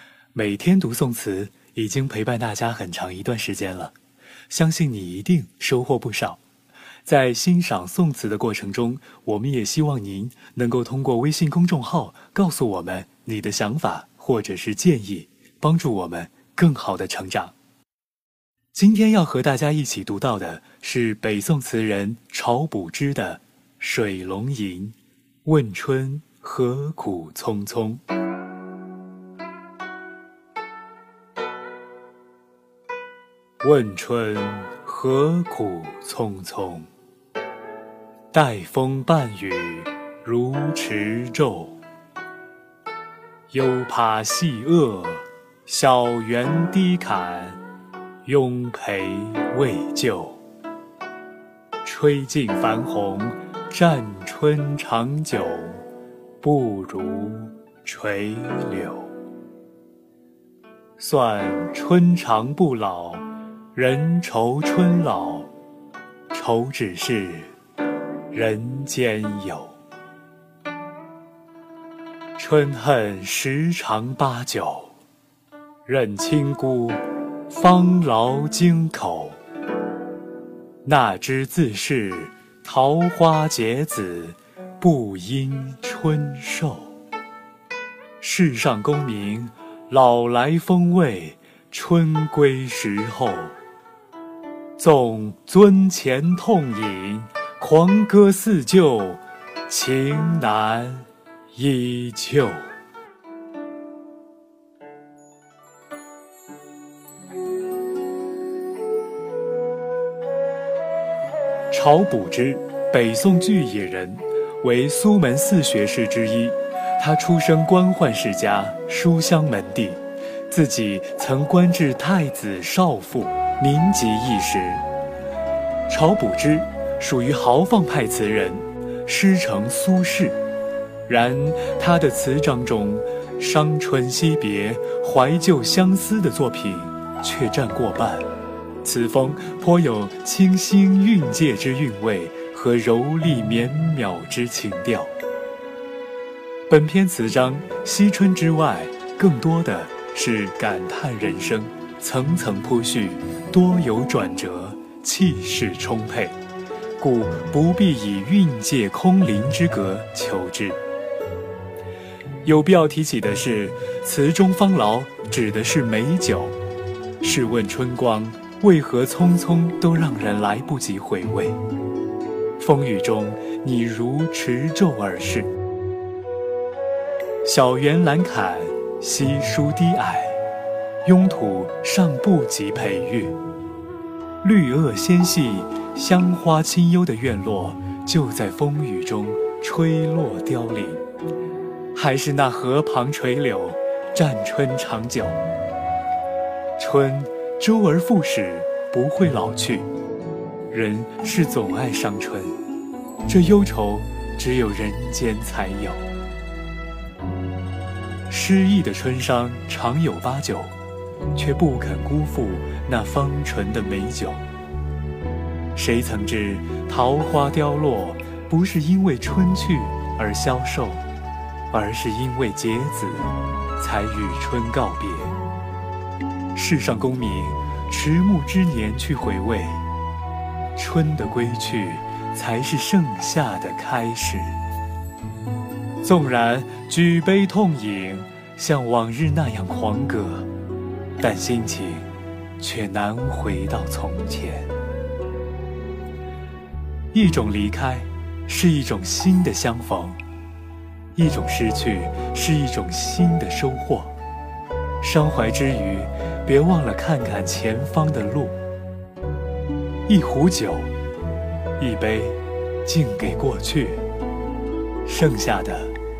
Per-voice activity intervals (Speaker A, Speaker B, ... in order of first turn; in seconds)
Speaker A: 0.3-3.9, 4.5-6.4, 7.0-17.5, 18.7-28.0, 33.6-36.9, 38.3-41.8, 43.5-47.6, 48.2-50.4, 51.8-55.8, 56.4-59.1, 61.0-65.5, 66.3-67.5, 68.3-69.8, 72.4-74.9, 75.8-79.4, 80.8-86.9, 88.2-93.5, 94.8-102.7, 111.7-124.8, 125.9-130.4, 131.1-138.2, 138.8-145.1, 146.7-156.3, 157.0-160.8, 162.4-166.5, 167.2-171.6, 172.6-175.5, 177.4-180.4, 181.0-183.3, 184.4-191.0, 191.9-195.4, 196.8-199.9, 200.7-202.6, 203.3-206.0, 208.3-210.7, 211.3-214.4, 215.7-221.0, 221.7-225.3, 226.5-229.8, 230.8-234.6, 236.0-240.5, 241.2-244.7, 247.1-250.2, 251.2-254.1, 255.0-258.6, 260.1-260.9, 261.8-264.0, 265.0-265.9